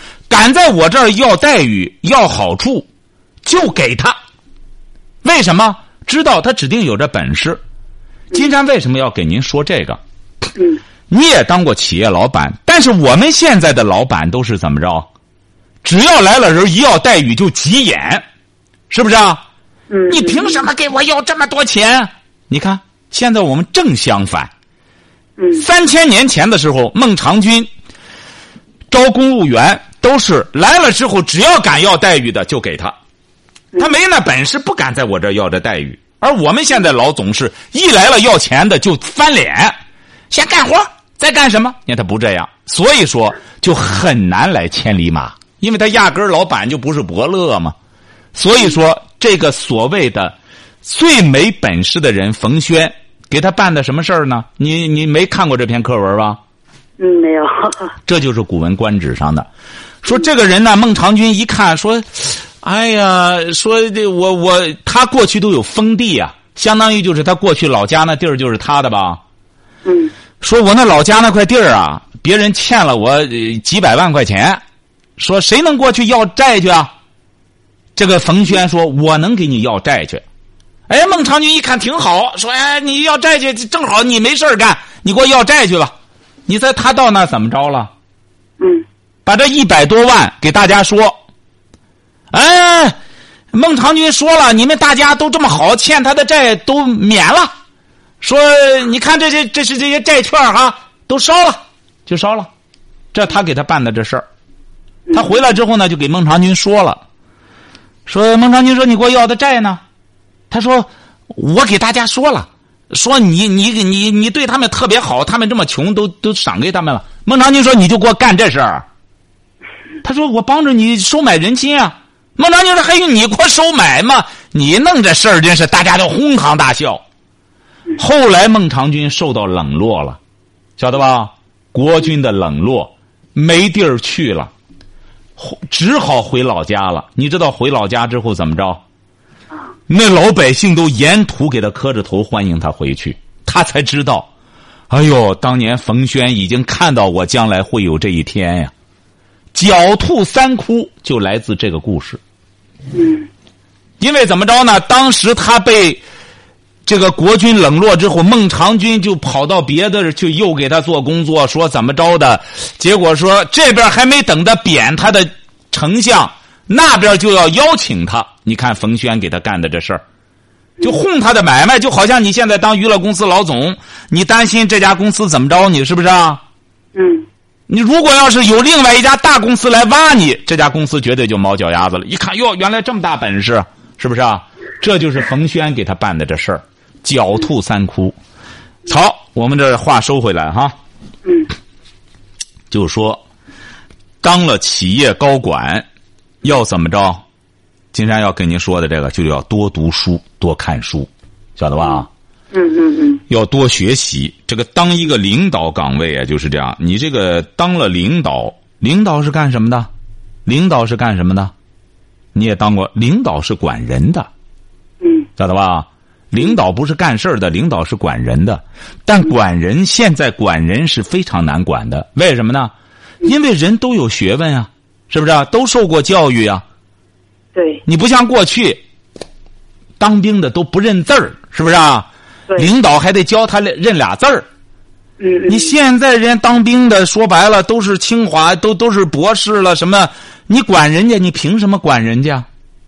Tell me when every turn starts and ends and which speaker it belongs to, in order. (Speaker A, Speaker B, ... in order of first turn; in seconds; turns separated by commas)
Speaker A: 0.3-2.9, Speaker A: 3.4-4.2, Speaker A: 5.2-7.6, Speaker A: 8.3-10.0, Speaker B: 10.6-10.8, Speaker A: 11.1-15.1, Speaker A: 15.8-18.2, Speaker A: 18.9-19.4, Speaker B: 19.9-20.6, Speaker A: 20.1-24.5, Speaker B: 25.4-25.6, Speaker A: 25.6-27.7, Speaker A: 28.9-33.0, Speaker A: 33.8-39.8, Speaker A: 40.3-47.8, Speaker A: 48.3-56.4, Speaker B: 57.0-57.9, Speaker A: 58.1-59.5, Speaker A: 60.0-69.2, Speaker B: 69.8-70.1, Speaker A: 70.4-74.6, Speaker A: 75.2-76.9, Speaker A: 78.0-80.2, Speaker A: 80.9-85.9, Speaker A: 86.5-87.9, Speaker B: 88.6-88.8, Speaker A: 89.3-91.2, Speaker A: 92.3-93.0, Speaker A: 93.5-97.5, Speaker A: 98.2-102.5, Speaker A: 103.1-104.3, Speaker B: 105.1-105.4, Speaker A: 105.1-107.0, Speaker A: 108.1-109.8, Speaker A: 110.5-118.8, Speaker A: 120.0-127.0, Speaker A: 128.0-130.2, Speaker A: 130.8-134.5, Speaker A: 135.4-138.8, Speaker A: 139.9-144.3, Speaker A: 144.9-148.7, Speaker A: 149.5-152.2, Speaker B: 152.9-153.3, Speaker A: 154.0-156.0, Speaker A: 156.9-170.0, Speaker A: 170.8-176.4, Speaker B: 176.9-177.3, Speaker A: 177.7-188.2, Speaker A: 188.9-190.8, Speaker A: 192.7-193.2, Speaker A: 194.2-195.9, Speaker A: 196.4-197.2, Speaker A: 197.9-202.1, Speaker B: 201.8-203.2, Speaker A: 203.3-209.9, Speaker A: 210.5-211.5, Speaker A: 212.3-214.3, Speaker B: 215.0-215.3, Speaker A: 215.4-226.6, Speaker B: 227.6-227.8, Speaker A: 227.9-228.8, Speaker A: 230.0-234.5, Speaker B: 235.2-235.7, Speaker A: 235.5-242.5